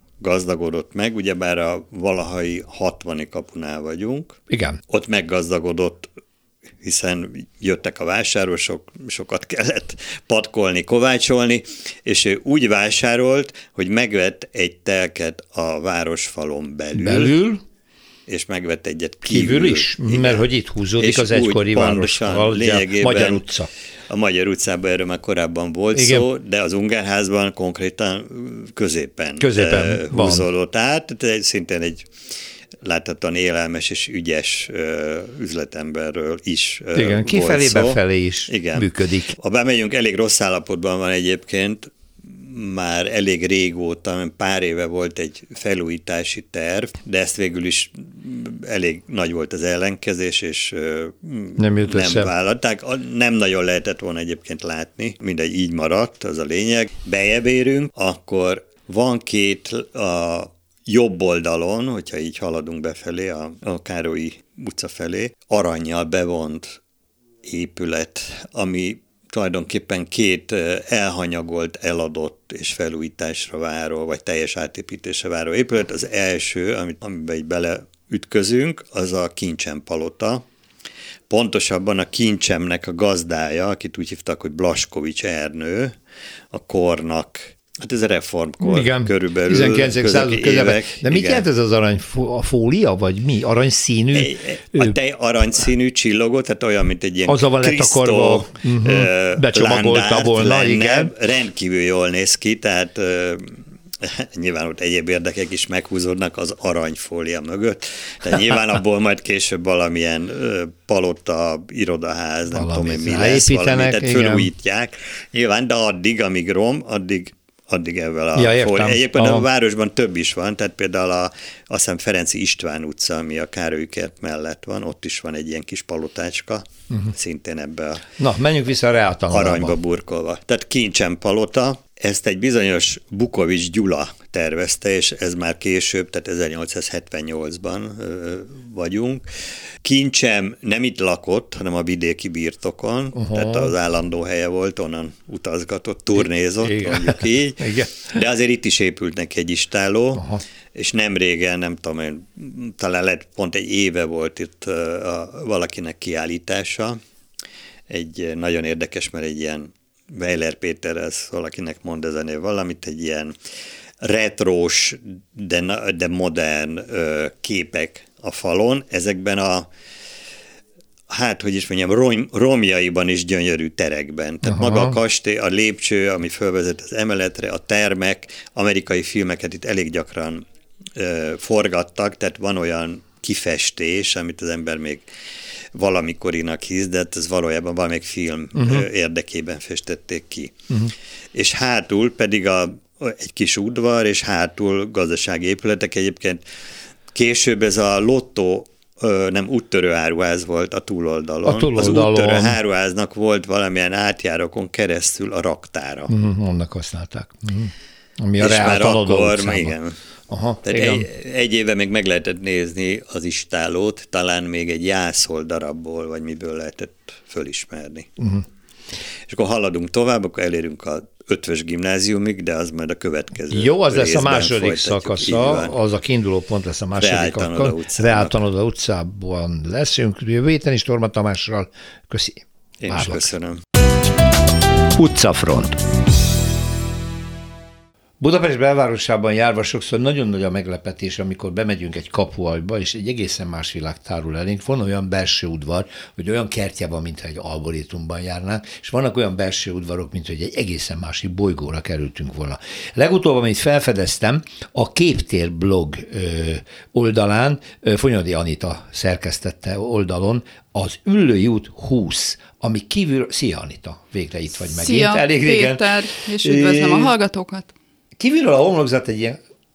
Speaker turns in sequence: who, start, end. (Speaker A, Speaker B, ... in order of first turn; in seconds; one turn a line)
Speaker A: 0.2-6.1
Speaker B: 4.5-4.8
Speaker A: 6.8-17.3
Speaker B: 16.9-17.6
Speaker A: 18.3-20.4
Speaker B: 19.2-23.7
Speaker A: 21.0-23.4
Speaker A: 24.1-32.1
Speaker B: 25.9-26.3
Speaker B: 29.4-30.5
Speaker A: 32.8-66.8
Speaker B: 37.0-39.3
Speaker B: 51.6-52.3
Speaker A: 67.4-80.5
Speaker A: 81.3-86.0
Speaker A: 86.5-91.5
Speaker B: 88.6-95.0
Speaker A: 94.1-128.1
Speaker B: 97.3-101.1
Speaker B: 112.5-114.5
Speaker B: 118.3-119.5
Speaker B: 128.2-129.8
Speaker A: 129.3-139.2
Speaker A: 139.8-157.0
Speaker B: 143.1-143.7
Speaker B: 146.2-148.2
Speaker B: 150.2-150.4
Speaker A: 157.9-163.4
Speaker A: 164.0-169.7
Speaker A: 171.1-185.1
Speaker B: 174.4-175.0
Speaker A: 185.7-190.6
Speaker B: 188.6-188.8
Speaker A: 191.3-196.4
Speaker A: 197.1-206.1
Speaker B: 201.4-202.6
Speaker B: 206.1-209.8
Speaker A: 208.4-210.0
Speaker B: 210.3-211.1
Speaker A: 210.6-218.1
Speaker A: 219.3-225.7
Speaker B: 223.5-233.3
Speaker A: 226.9-228.3
Speaker A: 232.8-233.6
Speaker B: 234.9-235.8
Speaker B: 238.2-267.1
Speaker C: 264.7-267.7
Speaker B: 268.2-269.4